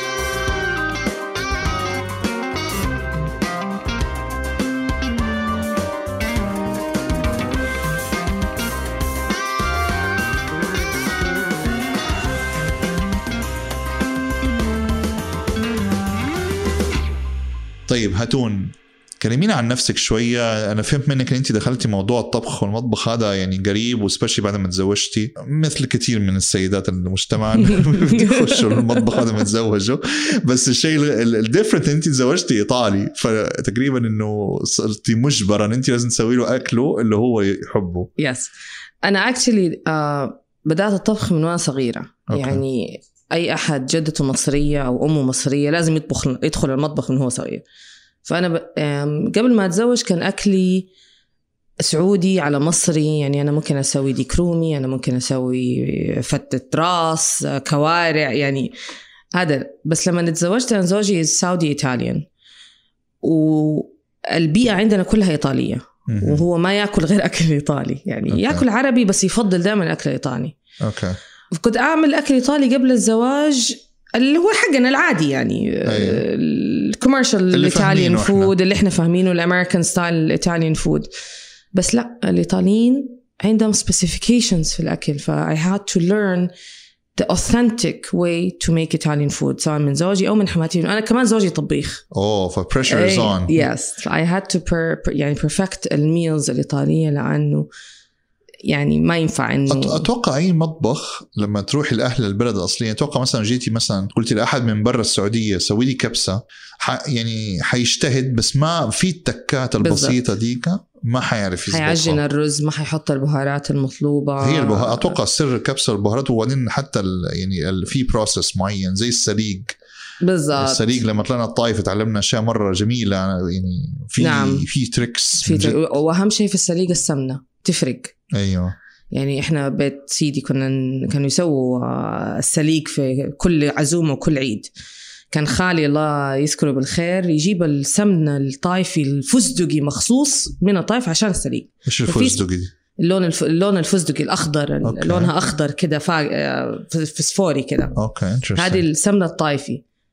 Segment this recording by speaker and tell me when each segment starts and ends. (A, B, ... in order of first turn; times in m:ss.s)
0:17.9-0:38.1 A
0:27.6-0:29.3 B
0:38.2-0:47.6 B
0:42.3-0:42.6 A
0:48.2-0:50.9 B
0:51.8-0:58.7 B
0:59.3-1:02.2 B
1:03.2-1:10.6 B
1:06.1-1:06.4 A
1:08.3-1:08.6 A
1:10.8-1:11.2 A
1:11.5-1:21.1 B
1:15.8-1:16.2 A
1:17.5-1:18.5 A
1:21.7-1:26.5 B
1:27.1-1:32.0 B
1:32.1-1:33.7 A
1:32.9-1:37.7 B
1:38.6-1:40.0 B
1:39.7-1:52.2 A
1:49.8-1:50.2 B
1:51.7-1:55.2 B
1:54.4-1:59.7 A
2:00.2-2:00.8 B
2:00.5-2:05.8 A
2:04.2-2:04.7 B
2:05.4-2:08.1 B
2:08.3-2:08.7 A
2:09.1-2:14.7 B
2:15.3-2:22.4 B
2:21.8-2:22.7 A
2:23.0-2:28.0 B
2:24.8-2:25.3 A
2:28.0-2:28.8 A
2:28.5-2:29.8 B